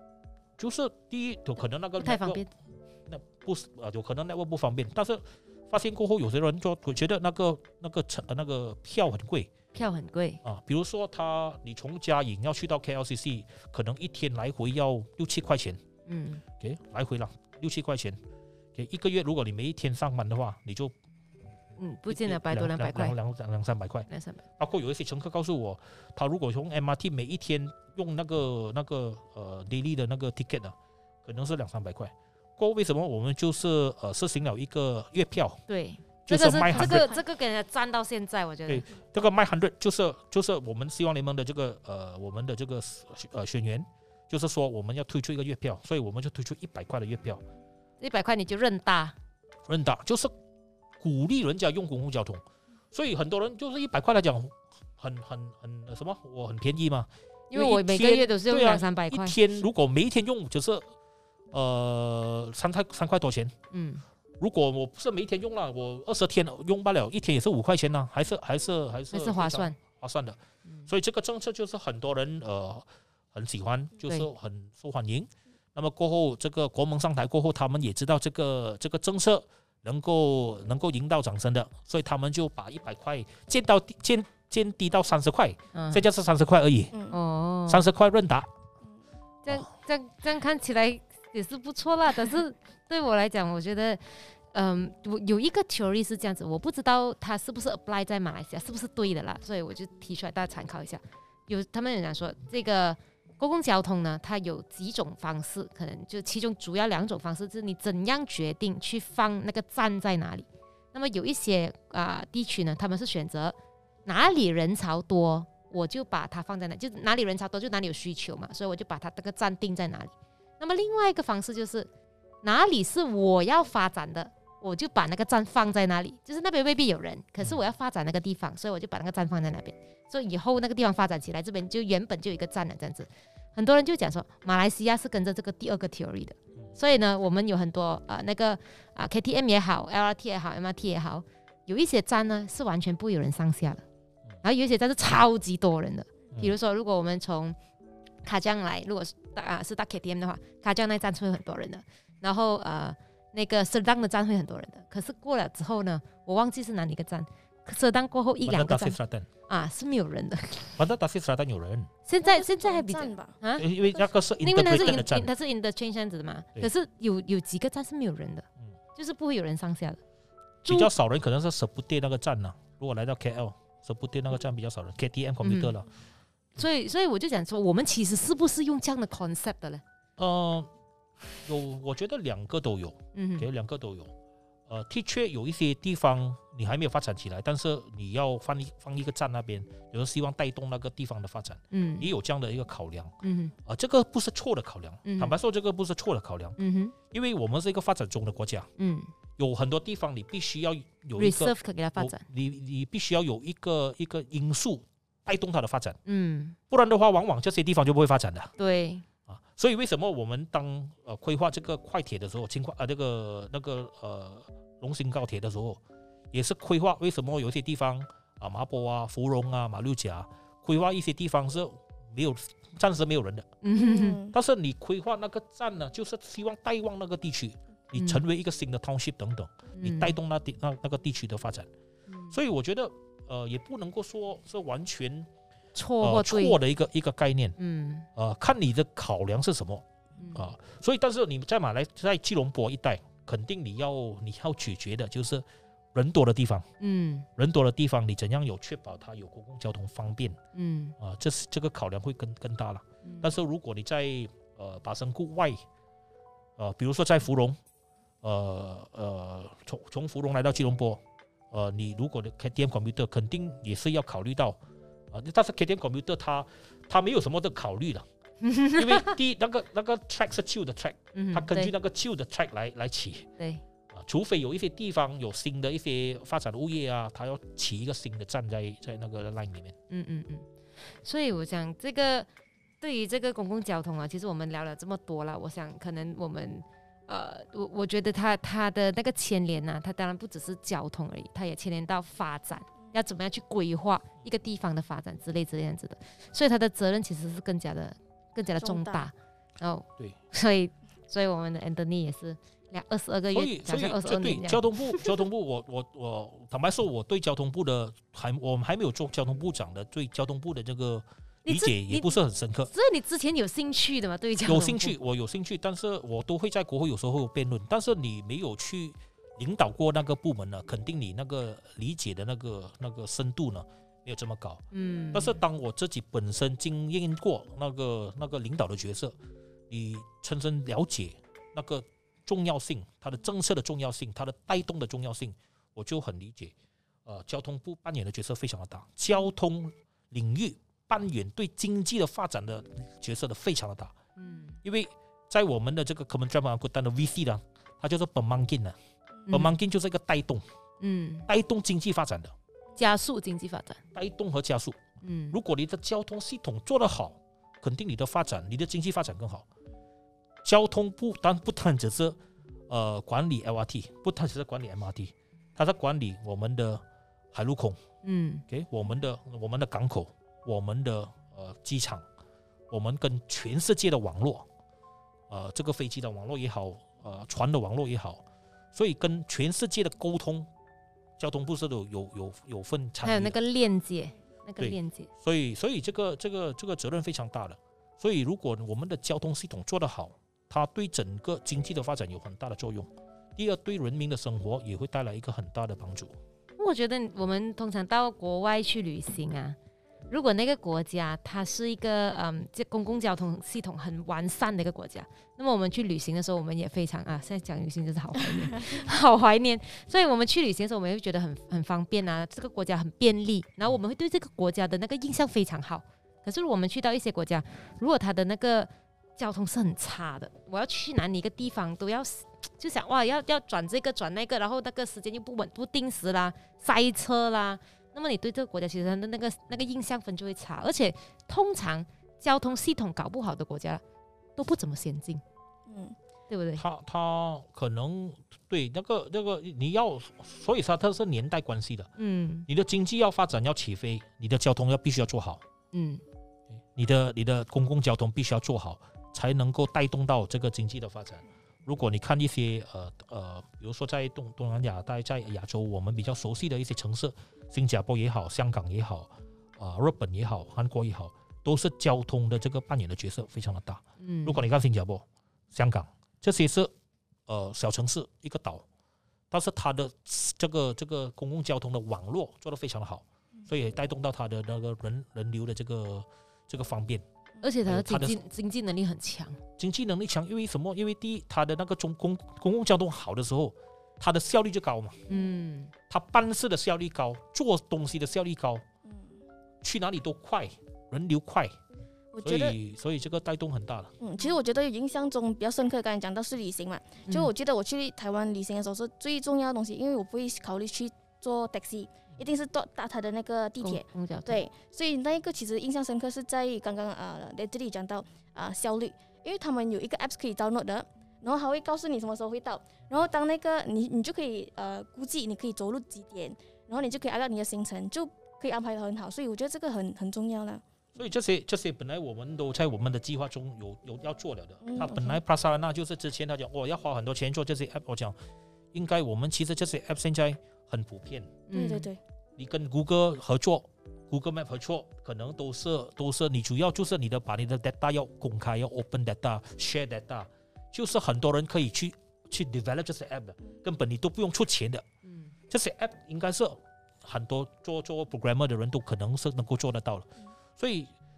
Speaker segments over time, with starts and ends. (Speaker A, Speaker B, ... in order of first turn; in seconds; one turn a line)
Speaker A: 0.6-2.4
Speaker B: 2.0-2.5
Speaker A: 3.1-9.5
Speaker B: 9.7-10.4
Speaker A: 10.4-15.8
Speaker B: 16.1-16.4
Speaker A: 16.6-18.2
Speaker A: 18.7-20.9
Speaker B: 21.8-23.1
Speaker A: 22.1-35.6
Speaker B: 24.1-24.4
Speaker B: 35.7-38.9
Speaker A: 36.2-37.1
Speaker C: 36.7-37.2
Speaker A: 38.7-47.4
Speaker B: 48.0-49.1
Speaker A: 49.7-50.3
Speaker A: 51.0-60.9
Speaker B: 57.5-59.4
Speaker A: 61.5-63.5
Speaker B: 63.7-64.0
Speaker A: 64.4-86.9
Speaker B: 69.1-69.8
Speaker B: 85.7-86.0
Speaker C: 86.9-87.2
Speaker B: 87.1-87.8
Speaker A: 87.7-88.5
Speaker B: 89.4-121.9
Speaker B: 122.4-143.8
Speaker B: 144.4-147.6
Speaker B: 148.2-159.0
Speaker A: 158.4-159.3
Speaker B: 159.5-160.8
Speaker A: 160.8-161.9
Speaker B: 162.1-163.7
Speaker C: 162.2-163.4
Speaker A: 163.5-165.3
Speaker B: 164.4-170.0
Speaker B: 170.6-170.9
Speaker A: 170.7-175.9
Speaker B: 175.4-175.7
Speaker B: 176.6-179.8
Speaker A: 180.2-180.7
Speaker A: 181.4-184.1
Speaker B: 183.1-183.5
Speaker A: 184.7-196.6
Speaker B: 191.7-192.1
Speaker B: 193.2-193.5
Speaker B: 195.1-195.3
Speaker B: 196.6-196.9
Speaker A: 197.1-198.7
Speaker B: 198.8-199.1
Speaker A: 199.4-206.0
Speaker B: 201.2-202.2
Speaker B: 206.1-206.6
Speaker A: 206.7-208.5
Speaker B: 208.6-209.0
Speaker A: 209.3-215.8
Speaker A: 216.3-223.5
Speaker B: 223.6-224.2
Speaker C: 223.7-224.3
Speaker A: 224.3-231.7
Speaker B: 227.9-228.2
Speaker B: 229.8-230.2
Speaker B: 232.1-232.3
Speaker A: 232.3-235.3
Speaker B: 235.7-236.6
Speaker A: 236.0-237.6
Speaker B: 237.6-238.1
Speaker A: 238.1-246.7
Speaker B: 246.8-247.3
Speaker A: 247.4-250.4
Speaker B: 250.5-250.9
Speaker A: 251.0-255.6
Speaker A: 256.6-257.6
Speaker A: 258.2-264.6
Speaker A: 265.1-268.1
Speaker B: 268.4-269.1
Speaker A: 268.7-273.3
Speaker B: 271.1-271.7
Speaker A: 273.9-279.7
Speaker B: 279.9-280.4
Speaker B: 281.0-282.3
Speaker B: 282.8-305.2
Speaker C: 298.6-299.1
Speaker A: 303.3-312.7
Speaker B: 311.4-312.2
Speaker B: 312.7-314.9
Speaker A: 314.4-329.1
Speaker B: 324.7-325.4
Speaker A: 329.7-336.5
Speaker A: 337.1-343.9
Speaker B: 344.2-344.6
Speaker A: 344.6-348.8
Speaker B: 349.3-349.6
Speaker A: 349.3-350.4
Speaker B: 350.8-351.3
Speaker A: 351.3-352.3
Speaker B: 352.8-353.8
Speaker A: 353.9-354.8
Speaker B: 355.0-355.4
Speaker A: 355.3-359.5
Speaker A: 360.4-362.2
Speaker A: 362.7-367.8
Speaker B: 368.0-368.4
Speaker A: 368.5-372.1
Speaker A: 372.7-374.5
Speaker A: 375.3-380.5
Speaker A: 381.2-383.4
Speaker B: 383.0-385.1
Speaker A: 384.6-396.1
Speaker B: 396.6-399.6
Speaker B: 400.1-433.8
Speaker B: 434.4-435.2
Speaker C: 435.7-436.0
Speaker B: 436.3-436.6
Speaker A: 436.6-441.9
Speaker B: 442.0-442.4
Speaker A: 442.5-445.4
Speaker B: 445.7-446.0
Speaker A: 446.7-466.7
Speaker B: 464.0-464.4
Speaker A: 467.3-468.6
Speaker A: 469.3-477.0
Speaker B: 477.4-479.4
Speaker A: 477.6-478.2
Speaker A: 479.6-485.0
Speaker B: 485.1-485.7
Speaker A: 485.9-488.6
Speaker C: 488.9-489.2
Speaker A: 489.6-491.6
Speaker C: 492.1-492.6
Speaker A: 492.2-493.9
Speaker C: 494.0-520.6
Speaker B: 503.6-504.4
Speaker A: 521.0-528.1
Speaker C: 524.6-525.2
Speaker A: 528.7-531.4
Speaker B: 531.5-531.9
Speaker C: 531.5-532.0
Speaker A: 532.4-544.8
Speaker B: 545.1-545.3
Speaker A: 545.5-550.9